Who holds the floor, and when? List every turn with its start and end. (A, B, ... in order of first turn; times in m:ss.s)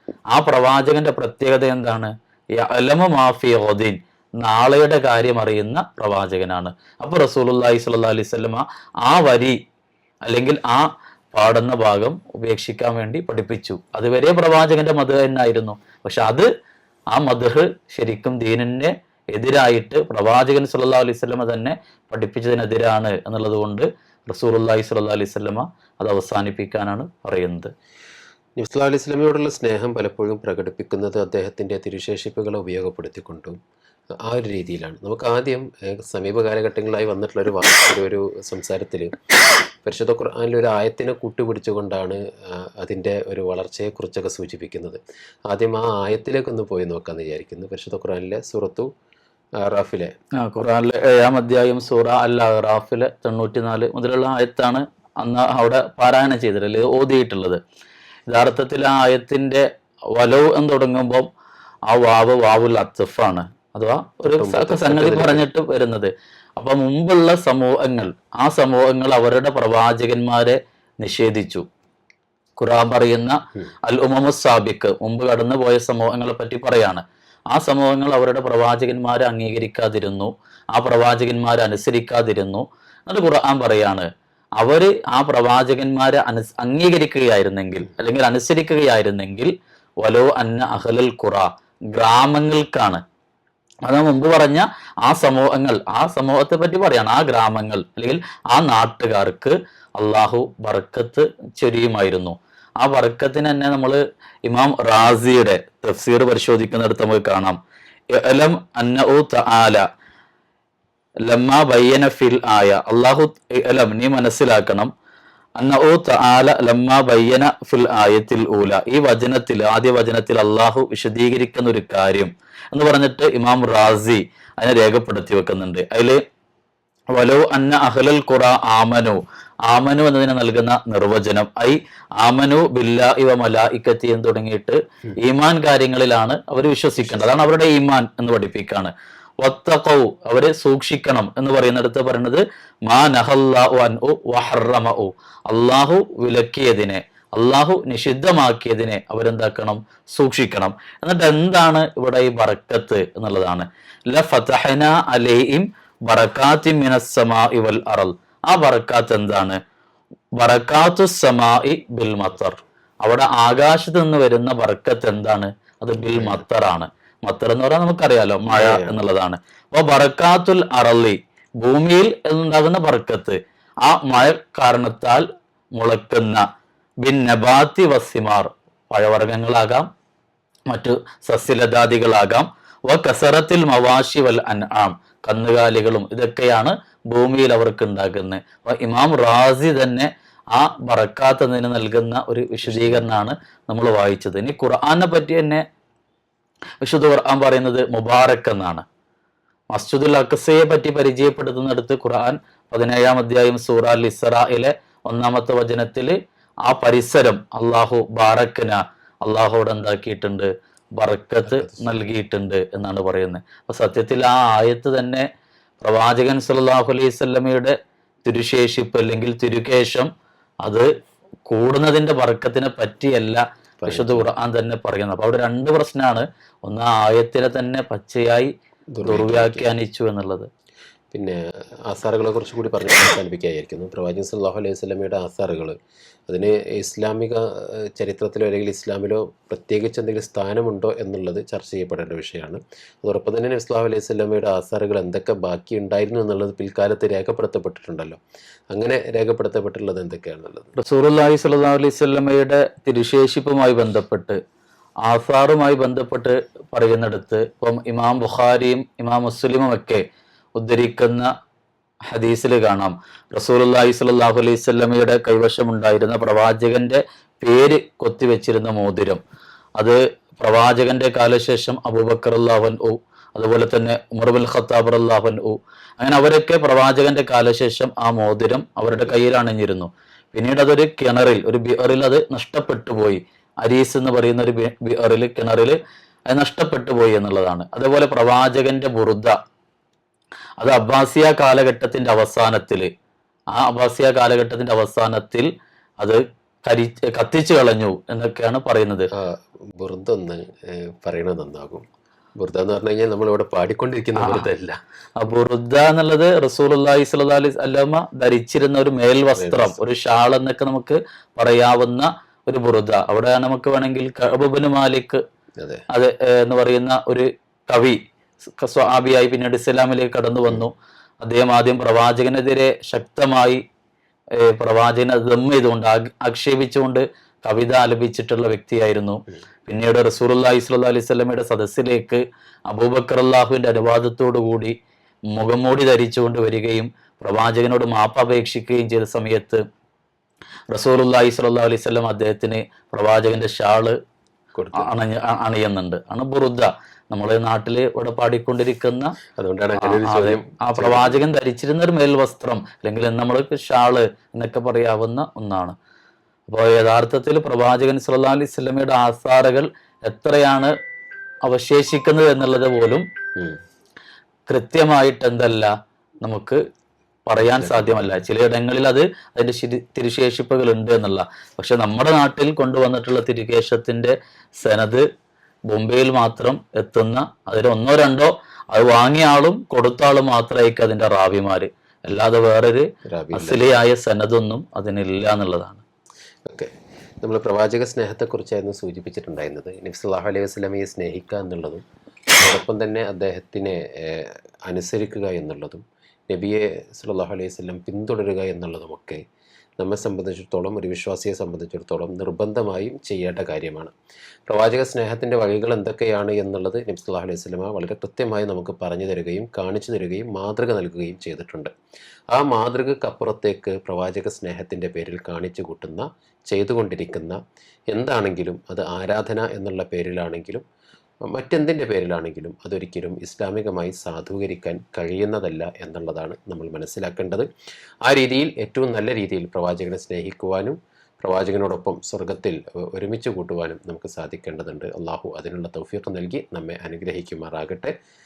0:00.3-0:09.6 A
0:10.2-0:16.5 A
0:17.1-0:27.7 A
0:28.6-0:33.6 B
0:34.2-0:39.1 B
0:39.8-0:48.9 B
0:49.6-0:50.1 B
0:50.4-0:57.6 A
0:58.3-1:01.3 A
1:01.9-1:11.6 A
1:04.2-1:05.4 B
1:12.6-1:24.1 A
1:24.6-1:33.0 A
1:33.8-1:47.6 A
1:48.1-1:49.8 A
1:51.2-1:54.9 A
1:55.6-2:06.2 A
2:07.1-2:39.6 A
2:17.0-2:17.5 B
2:40.4-2:56.4 A
2:46.1-2:46.4 B
2:48.5-2:49.0 B
2:57.0-2:59.9 A
3:00.7-3:15.6 A
3:12.6-3:13.1 B
3:16.8-3:18.8 A
3:19.7-3:26.1 A
3:26.6-3:35.2 A
3:31.5-3:32.0 B
3:35.8-3:40.1 A
3:40.6-3:40.9 A
3:41.5-3:48.5 A
3:43.8-3:44.3 B
3:48.9-3:49.7 B
3:49.0-3:50.5 A
3:51.9-3:55.7 B
3:56.3-3:57.4 B
3:57.9-4:08.2 B
4:08.7-4:10.7 B
4:10.8-4:14.4 A
4:15.0-4:20.0 A
4:20.6-4:21.3 A
4:22.1-4:29.2 A
4:29.8-4:45.8 A
4:38.9-4:39.2 B
4:46.3-4:49.3 A
4:50.6-4:52.9 A
4:53.5-4:55.5 A
4:56.0-4:59.1 A
4:59.2-5:01.8 B
5:02.4-5:04.8 B
5:04.2-5:04.5 A
5:05.2-5:15.2 A
5:09.4-5:09.8 B
5:15.6-5:15.8 B
5:15.9-5:18.0 A
5:18.6-5:23.6 A
5:24.4-5:34.7 A
5:35.3-5:39.6 A
5:40.7-5:44.0 A
5:44.5-5:44.9 B
5:44.7-5:49.2 A
5:49.4-5:51.3 B
5:49.8-5:55.7 A
5:56.5-6:00.7 A
6:01.4-6:03.0 A
6:04.5-6:05.7 A
6:06.2-6:06.6 A
6:07.3-6:15.0 A
6:07.4-6:08.2 B
6:15.7-6:25.8 A
6:23.1-6:23.7 B
6:26.5-6:31.8 B
6:32.4-6:39.2 B
6:39.8-6:43.9 B
6:44.5-6:51.7 B
6:52.3-6:57.4 B
6:57.9-7:00.6 B
7:01.3-7:07.5 B
7:08.0-7:17.9 B